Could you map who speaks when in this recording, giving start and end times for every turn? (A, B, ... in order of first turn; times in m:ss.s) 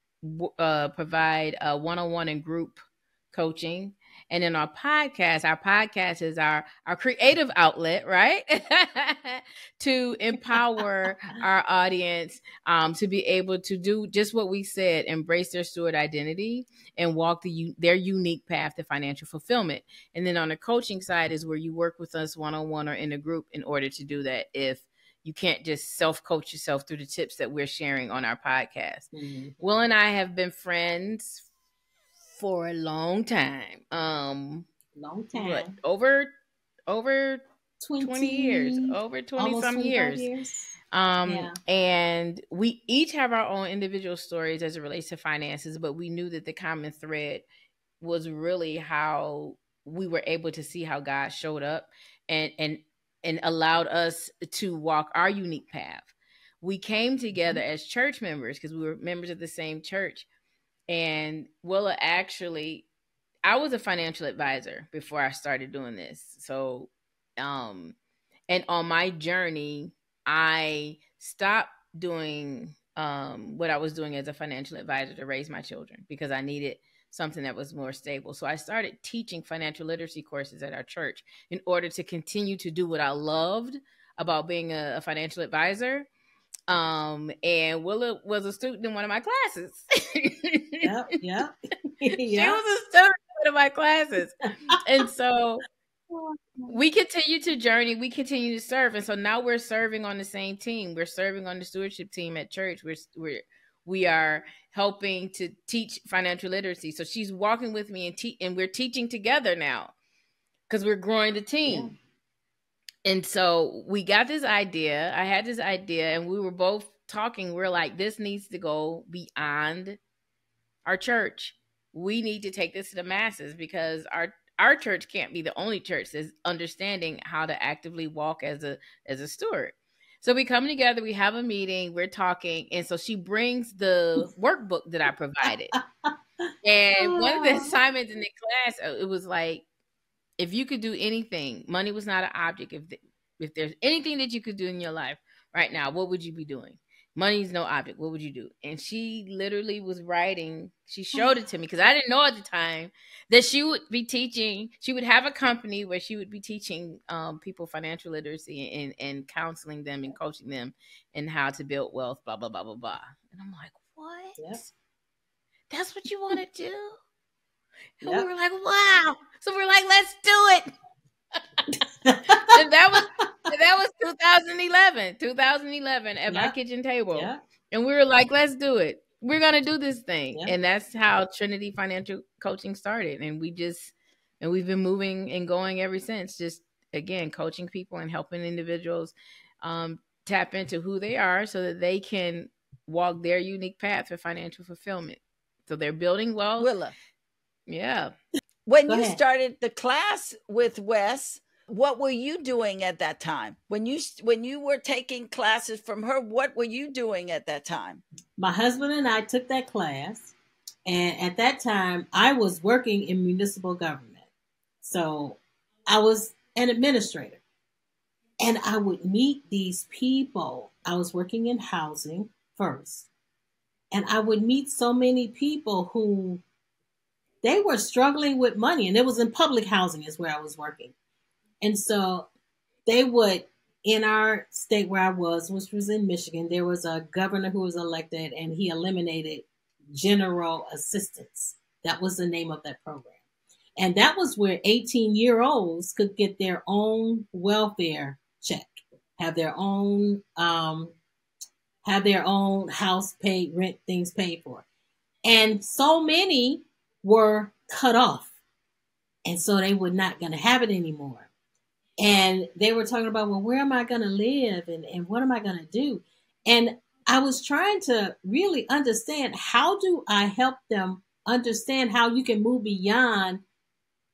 0:00.2-0:31.5 A
0:29.1-0:29.6 B
0:32.4-0:34.7 A
0:35.0-0:35.8 B
0:35.3-0:36.3 A
0:36.9-0:37.4 A
0:37.8-0:40.7 B
0:38.0-0:40.3 A
0:40.9-0:47.4 A
0:41.3-0:41.6 B
0:48.0-1:00.3 A
1:00.9-1:02.9 A
1:03.4-1:08.0 A
1:08.5-1:26.1 A
1:26.7-1:30.9 A
1:30.8-1:32.6 B
1:32.3-1:35.6 A
1:36.1-1:36.8 B
1:36.7-1:49.9 A
1:50.7-1:51.9 A
1:51.7-1:51.9 B
1:53.0-2:00.0 A
2:00.8-2:15.8 A
2:16.0-2:17.8 B
2:16.6-2:19.6 A
2:20.4-2:44.7 A
2:44.4-2:44.6 B
2:45.7-2:47.0 A
2:48.0-2:50.7 A
2:48.0-2:48.3 B
2:52.0-2:52.5 B
2:52.3-3:16.7 A
2:56.3-2:56.6 B
2:57.1-2:57.4 B
3:16.6-3:16.9 C
3:17.7-3:18.1 A
3:18.7-3:28.0 C
3:18.9-3:19.2 B
3:28.4-3:30.3 B
3:30.9-3:34.3 B
3:34.8-3:37.4 B
3:38.4-3:43.1 B
3:43.9-3:46.4 B
3:47.4-3:50.9 B
3:51.6-3:52.3 B
3:52.9-4:03.2 B
4:03.8-4:11.0 B
4:11.8-4:14.6 B
4:15.2-4:18.3 B
4:19.2-4:21.3 B
4:22.0-4:33.4 B